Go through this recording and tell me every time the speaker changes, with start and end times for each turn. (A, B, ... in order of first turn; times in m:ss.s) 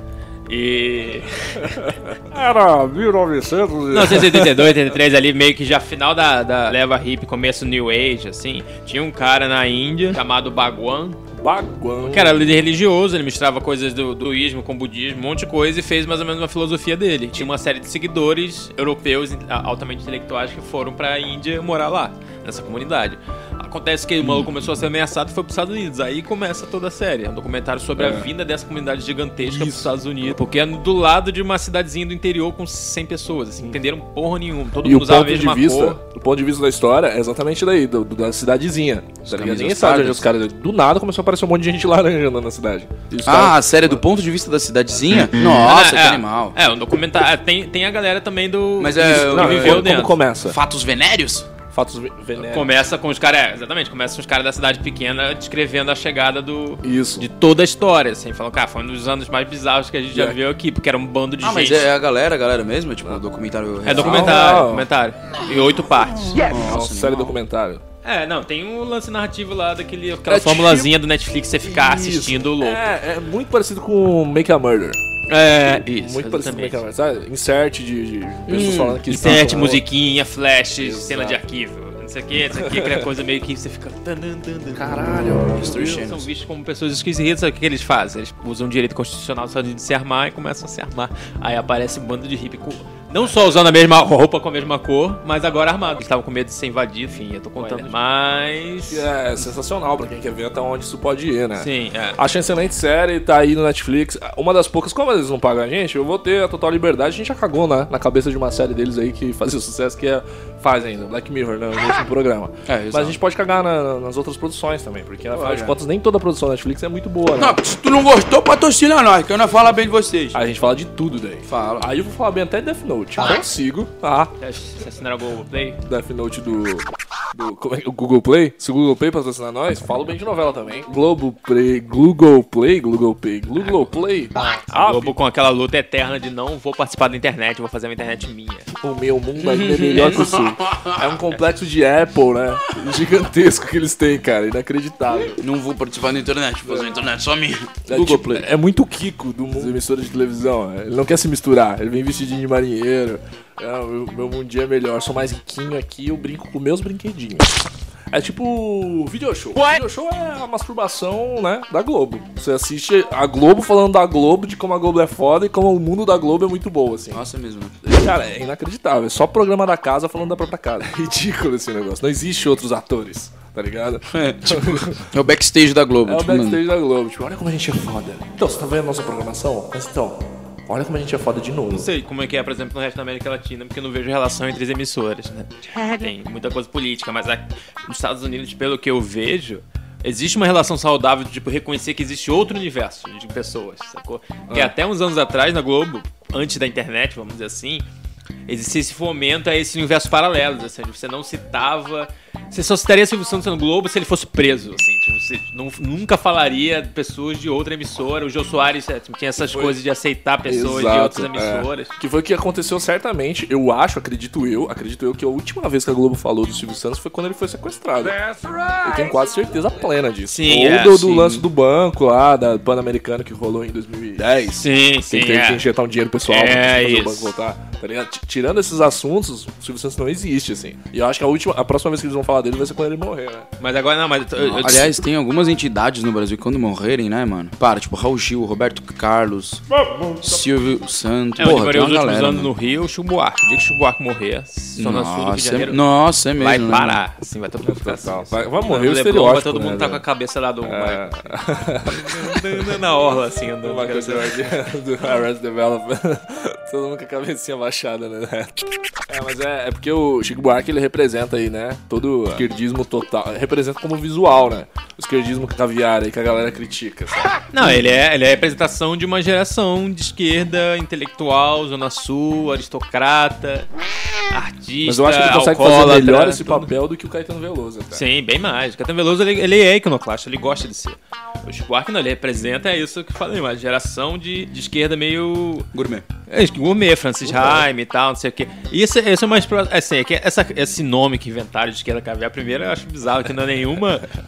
0:00.5-0:01.9 A
0:02.1-0:04.7 B
0:03.9-0:11.2 A
0:11.4-0:12.5 B
0:12.0-0:36.0 A
0:28.0-0:28.3 B
0:29.4-0:29.9 B
0:34.8-0:44.0 B
0:39.3-0:40.3 C
0:43.2-0:46.6 C
0:45.4-0:50.2 A
0:48.8-0:49.9 C
0:49.0-0:50.6 B
0:50.4-0:51.5 C
0:51.7-0:52.7 B
0:52.4-1:01.9 A
0:56.8-0:57.3 B
1:01.4-1:04.4 C
1:03.8-1:06.4 A
1:03.9-1:04.9 B
1:06.3-1:07.4 C
1:06.3-1:07.8 B
1:08.0-1:12.9 A
1:10.3-1:10.9 B
1:11.6-1:15.0 B
1:15.3-1:16.8 A
1:15.7-1:19.8 B
1:18.5-1:19.0 C
1:19.1-1:25.2 A
1:20.8-1:21.4 B
1:22.6-1:23.0 B
1:24.7-1:26.0 B
1:25.5-1:26.3 C
1:25.8-1:39.1 A
1:37.6-1:37.9 B
1:38.9-1:57.6 B
1:41.6-1:42.2 A
1:52.7-1:53.2 C
1:55.3-1:55.8 C
1:57.4-2:00.4 C
2:00.3-2:04.3 B
2:01.4-2:01.9 C
2:04.4-2:05.8 A
2:05.8-2:15.2 B
2:13.6-2:13.9 A
2:14.7-2:18.7 A
2:18.7-2:25.4 B
2:19.4-2:21.2 C
2:25.4-2:28.4 C
2:26.7-2:27.0 B
2:27.9-2:47.2 B
2:47.1-2:47.8 C
2:47.8-2:55.0 B
2:54.1-2:56.6 C
2:56.0-3:01.9 B
3:01.7-3:17.8 A
3:18.5-3:31.9 A
3:29.4-3:29.8 B
3:30.5-3:53.5 B
3:40.3-3:41.4 A
3:44.6-3:45.6 A
3:46.3-3:47.3 A
3:53.6-3:55.0 A
3:54.4-3:59.6 C
3:59.7-4:00.2 B
4:00.2-4:02.5 C
4:01.4-4:05.8 A
4:04.8-4:07.0 C
4:06.4-4:11.3 A
4:07.6-4:10.0 B
4:10.6-4:12.7 B
4:11.8-4:14.4 A
4:13.6-4:27.9 B
4:27.5-4:33.7 A
4:34.3-4:36.7 A
4:34.8-4:38.0 B
4:37.9-4:45.7 A
4:45.7-4:46.0 C
4:46.3-4:54.0 A
4:47.3-4:47.6 B